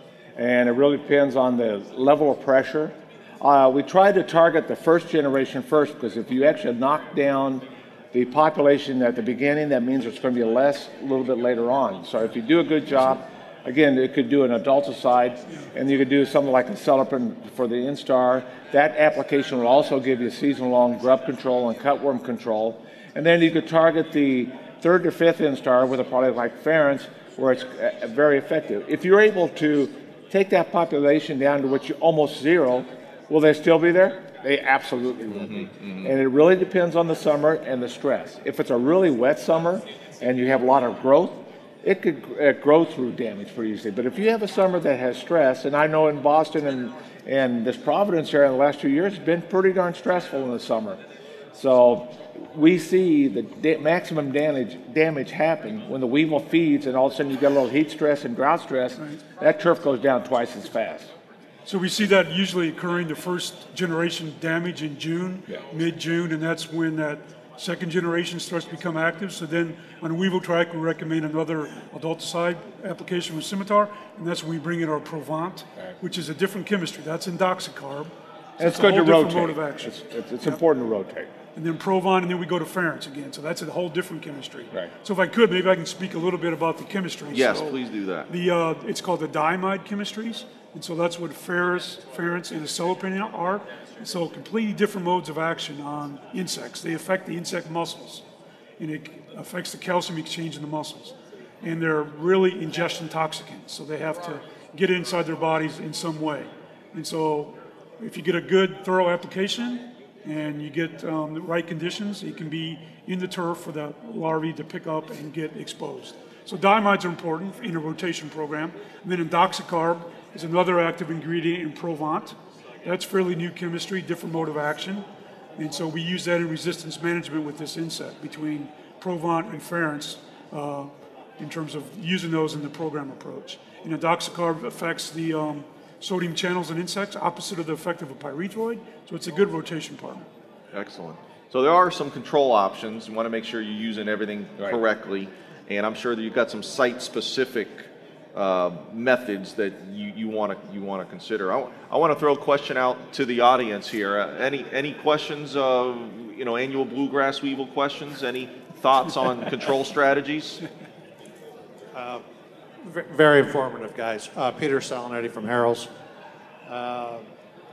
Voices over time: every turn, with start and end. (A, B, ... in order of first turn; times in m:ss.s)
0:00.4-0:51.0 A
0:51.5-1:01.1 A
1:01.7-1:20.6 B
1:18.6-1:21.3 A
1:21.6-1:38.2 B
1:27.3-1:28.3 C
1:38.8-2:05.0 B
2:05.6-2:20.3 B
2:20.7-2:40.6 C
2:41.9-2:42.2 D
2:42.8-2:45.9 D
2:46.7-2:47.2 D